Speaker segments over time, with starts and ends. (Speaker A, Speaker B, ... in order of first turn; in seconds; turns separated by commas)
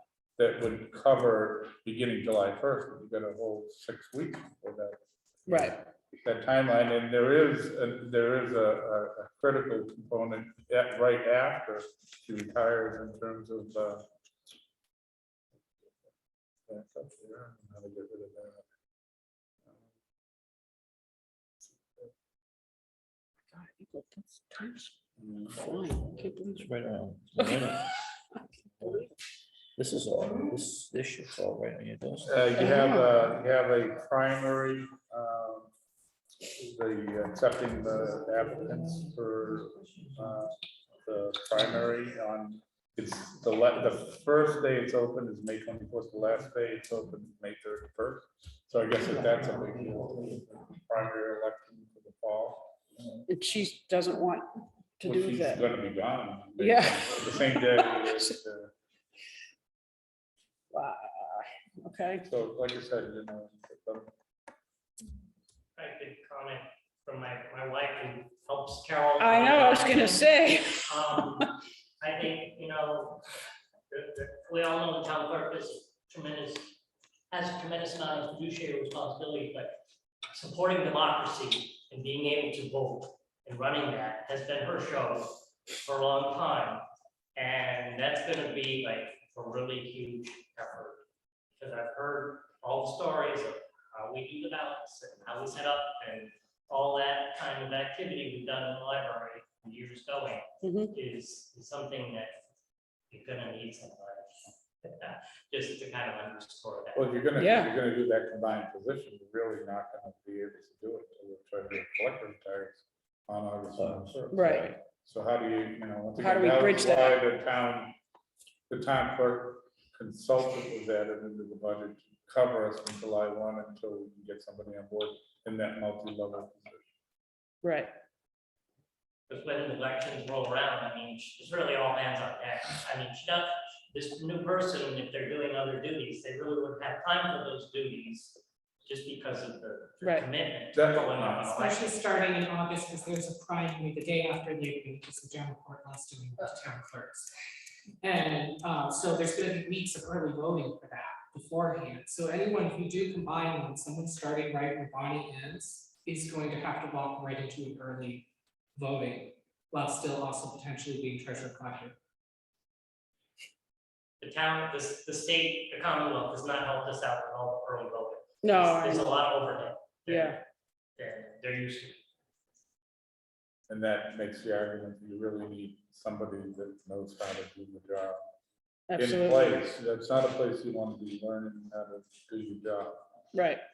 Speaker A: 0.4-14.1, Speaker B: 5.5-5.8, Speaker A: 16.7-18.6, Speaker B: 23.5-24.9, Speaker A: 25.2-26.3, Speaker B: 25.6-26.6, Speaker C: 26.3-27.9, Speaker C: 28.8-29.1, Speaker C: 29.8-32.5, Speaker A: 32.3-35.7, Speaker B: 32.6-33.1, Speaker A: 36.6-53.2, Speaker C: 49.1-50.4, Speaker B: 53.3-54.5, Speaker B: 55.0-55.7, Speaker A: 55.0-58.7, Speaker B: 56.6-58.3, Speaker B: 60.7-62.2, Speaker A: 62.2-64.1, Speaker D: 65.8-73.2, Speaker B: 69.2-71.4, Speaker D: 73.9-76.8, Speaker D: 77.3-79.8, Speaker D: 80.3-86.8, Speaker D: 87.4-91.0, Speaker D: 91.6-102.3, Speaker B: 100.6-100.9, Speaker D: 103.1-107.2, Speaker A: 107.0-118.0, Speaker B: 107.4-107.7, Speaker C: 113.8-114.8, Speaker B: 114.3-114.7, Speaker B: 116.2-117.2, Speaker A: 118.7-126.8, Speaker B: 127.6-127.9, Speaker D: 129.3-142.1, Speaker B: 140.0-140.3, Speaker A: 140.7-141.6, Speaker E: 141.5-147.3, Speaker E: 148.0-161.9, Speaker D: 164.2-170.4, Speaker B: 168.4-169.2, Speaker B: 170.1-170.4, Speaker D: 171.0-172.0, Speaker A: 173.7-178.2, Speaker B: 178.9-179.6, Speaker A: 179.0-183.1, Speaker B: 183.3-183.6